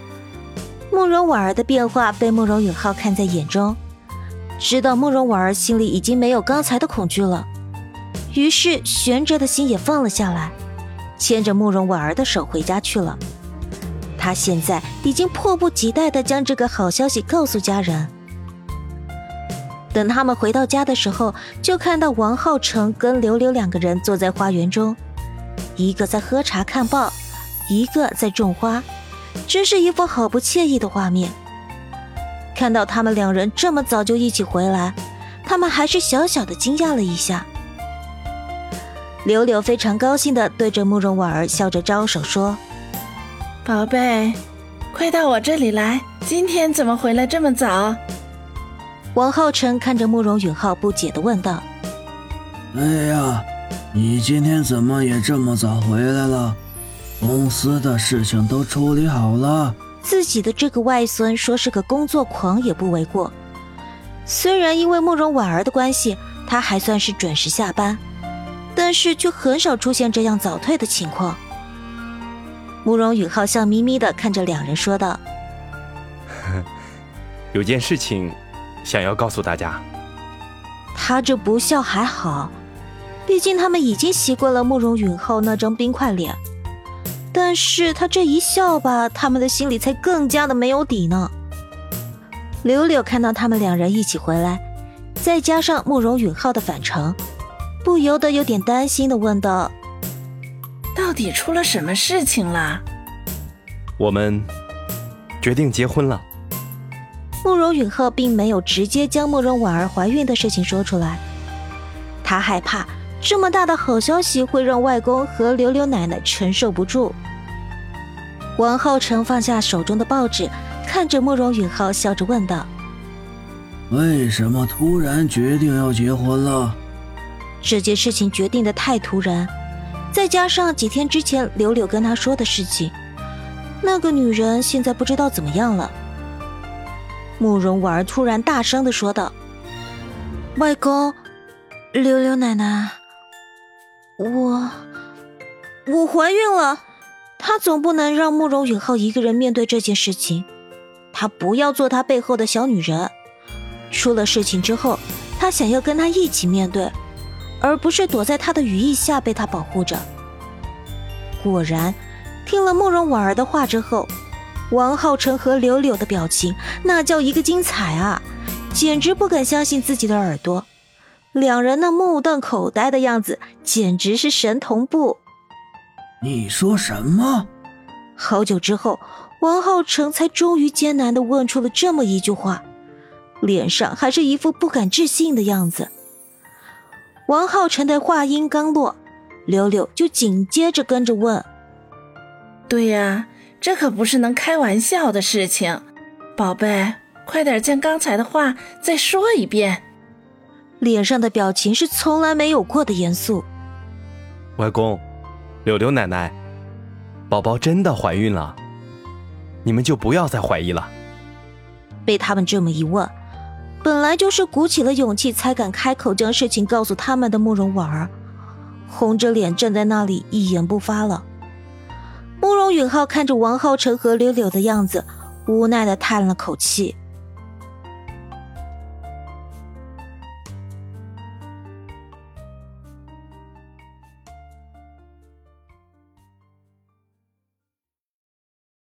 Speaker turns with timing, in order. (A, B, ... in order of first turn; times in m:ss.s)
0:00.9-0:03.8 A
0:04.6-0:07.5 A
0:08.3-0:10.6 A
0:11.2-0:13.2 A
0:14.2-0:18.1 A
0:19.9-0:25.0 A
0:25.8-0:27.2 A
0:27.7-0:28.9 A
0:29.5-0:31.4 A
0:32.5-0:37.5 A
0:39.2-0:42.6 A
0:43.6-0:44.4 B
0:44.9-0:48.0 B
0:49.2-0:51.7 A
0:52.7-0:56.6 C
0:57.2-0:59.8 C
1:00.0-1:03.4 A
1:04.3-1:08.0 A
1:08.8-1:11.4 A
1:12.8-1:15.2 A
1:17.5-1:19.8 D
1:20.9-1:22.6 A
1:23.3-1:26.4 A
1:27.3-1:31.3 A
1:32.6-1:34.6 A
1:35.2-1:37.2 A
1:37.8-1:39.7 A
1:41.0-1:42.8 B
1:44.0-1:44.5 D
1:45.4-1:46.3 D
1:47.4-1:51.2 A
1:52.2-1:57.2 A
1:58.6-2:02.7 A
2:03.9-2:06.8 C
2:07.6-2:09.5 A
2:10.1-2:13.0 A
2:13.8-2:16.0 A
2:17.4-2:19.4 A
2:20.6-2:21.2 A
2:21.9-2:23.0 A
2:24.2-2:24.9 A
2:25.9-2:26.8 A
2:27.4-2:30.5 A
2:31.1-2:33.1 A
2:33.9-2:37.0 A
2:37.6-2:40.1 A
2:41.4-2:44.1 A
2:44.7-2:50.7 A
2:51.3-2:55.2 A
2:56.2-2:57.5 C
2:58.2-3:02.6 A
3:03.4-3:05.9 A
3:07.3-3:11.5 A
3:12.7-3:19.8 B
3:20.8-3:23.5 A
3:24.6-3:25.0 D
3:25.6-3:26.4 D
3:27.3-3:28.6 D
3:29.6-3:30.9 D
3:32.1-3:33.1 A
3:33.8-3:38.1 A
3:38.9-3:41.2 A
3:42.4-3:47.0 A